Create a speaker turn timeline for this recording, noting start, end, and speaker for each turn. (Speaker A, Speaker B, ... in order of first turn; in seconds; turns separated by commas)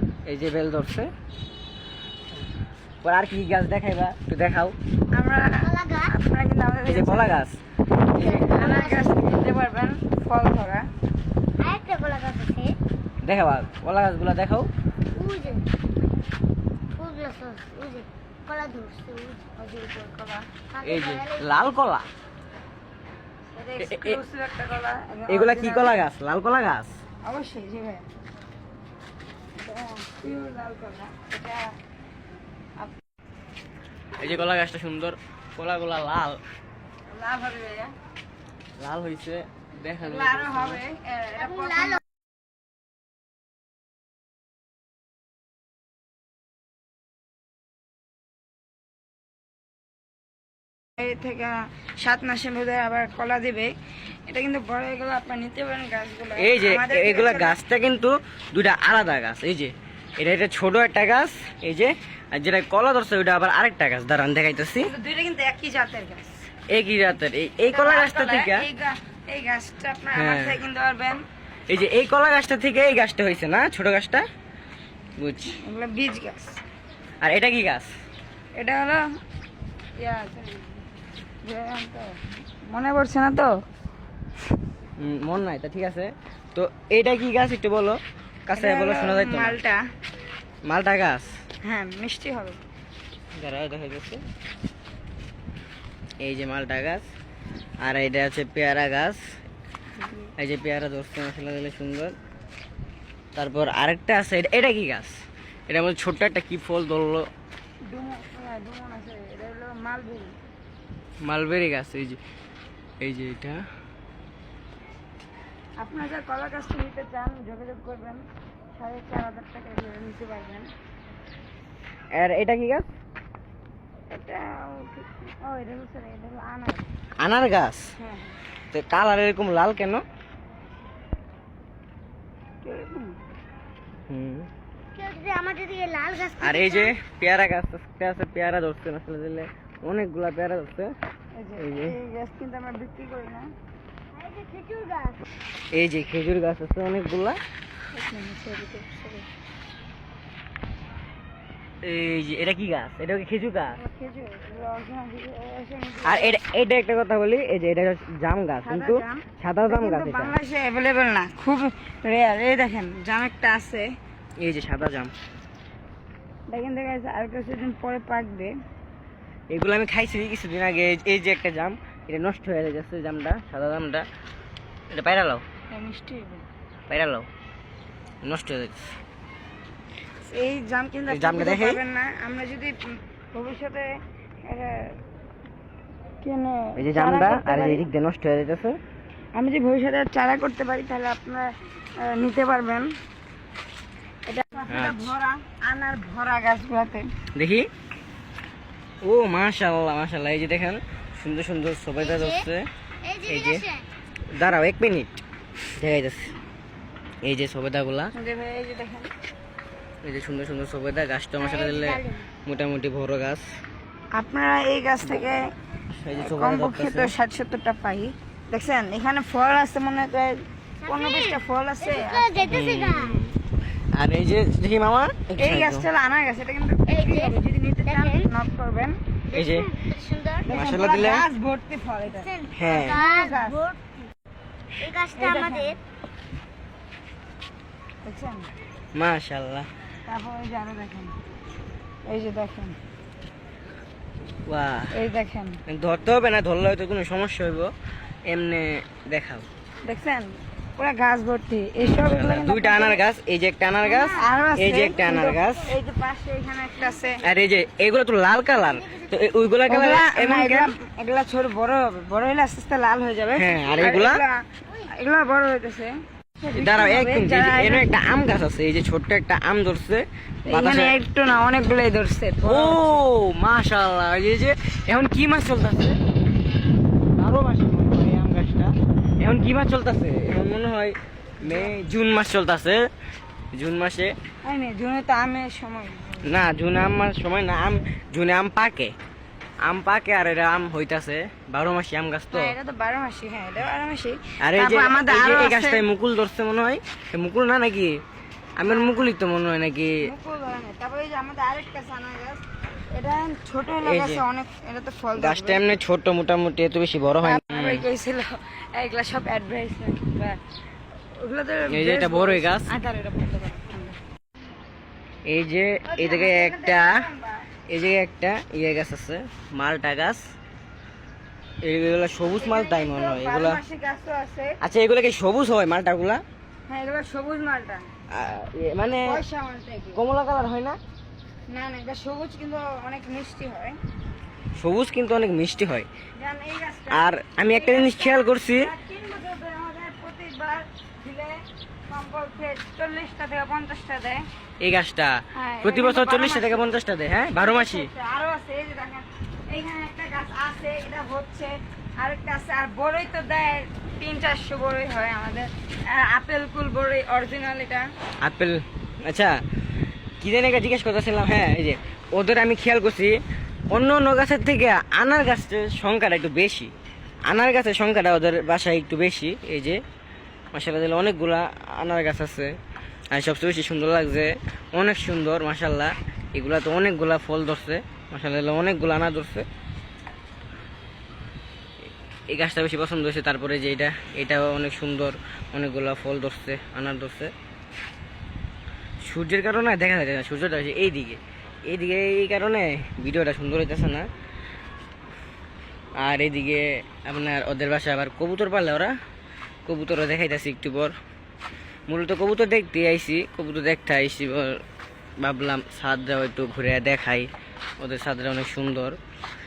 Speaker A: 0.3-1.1, Speaker A: 3.0-4.8, Speaker B: 5.1-7.4, Speaker C: 5.6-6.1, Speaker A: 6.9-7.6, Speaker B: 8.1-10.8, Speaker C: 8.1-9.2, Speaker C: 11.6-12.8, Speaker A: 13.2-14.7, Speaker C: 15.1-15.6, Speaker C: 17.0-19.5, Speaker B: 19.6-20.5, Speaker C: 20.7-21.6, Speaker A: 20.8-22.1, Speaker B: 23.5-26.0, Speaker A: 23.8-24.2, Speaker A: 25.3-26.9, Speaker B: 27.2-28.1, Speaker B: 29.6-31.8, Speaker A: 34.2-36.4, Speaker B: 37.1-37.9, Speaker A: 38.8-40.8, Speaker B: 40.0-42.0, Speaker B: 51.0-53.7, Speaker B: 54.3-57.6, Speaker A: 56.4-64.9, Speaker B: 64.8-66.5, Speaker A: 66.7-68.7, Speaker B: 67.7-71.2, Speaker A: 70.1-70.6, Speaker A: 71.7-74.2, Speaker A: 75.2-75.6, Speaker B: 75.6-76.6, Speaker A: 77.2-77.9, Speaker B: 78.5-79.0, Speaker B: 80.0-80.8, Speaker B: 81.4-82.2, Speaker B: 82.7-83.5, Speaker A: 85.0-89.6, Speaker B: 88.5-89.8, Speaker A: 90.7-91.4, Speaker B: 91.6-92.6, Speaker A: 93.4-94.2, Speaker A: 96.2-97.1, Speaker A: 97.8-99.2, Speaker B: 100.0-100.3, Speaker A: 100.4-102.2, Speaker A: 103.3-107.3, Speaker B: 107.9-110.4, Speaker A: 111.2-112.2, Speaker A: 113.0-113.6, Speaker B: 115.8-120.7, Speaker A: 122.2-122.9, Speaker B: 124.1-126.9, Speaker A: 127.2-127.9, Speaker B: 128.0-128.3, Speaker A: 128.7-130.1, Speaker B: 132.6-133.2, Speaker A: 134.1-134.5, Speaker C: 134.9-136.9, Speaker A: 136.4-140.9, Speaker B: 141.3-143.5, Speaker A: 141.6-142.0, Speaker C: 144.1-145.2, Speaker A: 145.7-147.4, Speaker B: 147.9-149.3, Speaker A: 151.8-153.8, Speaker B: 153.8-156.4, Speaker A: 156.1-160.4, Speaker B: 158.6-163.9, Speaker A: 164.4-165.1, Speaker B: 166.5-168.5, Speaker A: 169.5-174.1, Speaker A: 174.9-175.4, Speaker B: 175.7-176.4, Speaker A: 176.9-177.3, Speaker A: 178.2-179.0, Speaker B: 180.2-185.0, Speaker A: 181.1-181.8, Speaker B: 186.2-187.8, Speaker A: 186.8-188.8, Speaker B: 189.3-192.9, Speaker B: 194.3-197.1, Speaker A: 194.7-195.1, Speaker A: 197.3-197.7, Speaker A: 199.0-202.7, Speaker C: 202.0-202.5, Speaker C: 203.0-203.8, Speaker A: 203.2-203.7, Speaker A: 204.3-205.2, Speaker A: 205.8-206.3, Speaker A: 207.2-208.1, Speaker B: 208.2-209.1, Speaker A: 210.0-213.5, Speaker C: 211.4-212.3, Speaker B: 214.1-215.5, Speaker A: 216.0-217.1, Speaker B: 216.2-222.6, Speaker C: 220.8-223.2, Speaker A: 222.4-223.4, Speaker A: 223.9-225.9, Speaker B: 225.4-229.0, Speaker C: 226.9-228.3, Speaker C: 229.3-230.6, Speaker A: 229.3-229.7, Speaker B: 230.4-233.6, Speaker A: 230.5-231.2, Speaker C: 232.1-234.1, Speaker A: 232.5-233.0, Speaker C: 234.8-235.8, Speaker B: 235.2-235.8, Speaker B: 238.0-238.5, Speaker A: 238.9-239.7, Speaker B: 240.1-241.2, Speaker B: 242.1-242.8, Speaker A: 244.5-245.0, Speaker B: 244.9-245.6, Speaker A: 245.7-247.7, Speaker A: 248.3-249.5, Speaker B: 249.8-253.0, Speaker A: 251.8-255.8, Speaker B: 254.0-257.3, Speaker A: 257.2-260.7, Speaker B: 259.7-267.9, Speaker A: 263.3-264.2, Speaker A: 266.6-270.9, Speaker B: 270.5-273.0, Speaker A: 272.4-276.0, Speaker A: 277.2-282.9, Speaker B: 281.4-281.7, Speaker A: 283.5-284.1, Speaker B: 284.4-286.4, Speaker A: 286.2-288.9, Speaker A: 289.6-292.6, Speaker B: 292.3-295.9, Speaker A: 294.4-298.0, Speaker A: 298.6-300.1, Speaker B: 298.6-299.1, Speaker B: 300.0-305.8, Speaker A: 303.8-304.2, Speaker A: 305.2-307.9, Speaker B: 307.2-310.4, Speaker B: 311.1-314.0, Speaker A: 311.7-312.7, Speaker A: 315.3-317.0, Speaker B: 315.9-317.5, Speaker A: 317.7-320.3, Speaker A: 321.6-323.6, Speaker B: 322.4-324.6, Speaker A: 324.6-326.2, Speaker B: 326.7-327.8, Speaker A: 328.1-329.2, Speaker B: 329.0-330.0, Speaker A: 329.9-330.8, Speaker B: 331.5-333.8, Speaker A: 334.6-335.9, Speaker B: 336.2-344.2, Speaker A: 336.9-338.7, Speaker A: 344.6-347.9, Speaker B: 345.4-346.7, Speaker B: 347.4-357.9, Speaker A: 358.2-359.4, Speaker A: 360.2-363.2, Speaker A: 363.7-366.7, Speaker A: 367.3-369.8, Speaker A: 370.5-372.5, Speaker A: 373.1-379.5, Speaker A: 382.3-387.3, Speaker A: 389.0-394.1, Speaker A: 396.0-398.9, Speaker A: 399.7-400.9, Speaker A: 401.9-404.6, Speaker A: 405.2-409.0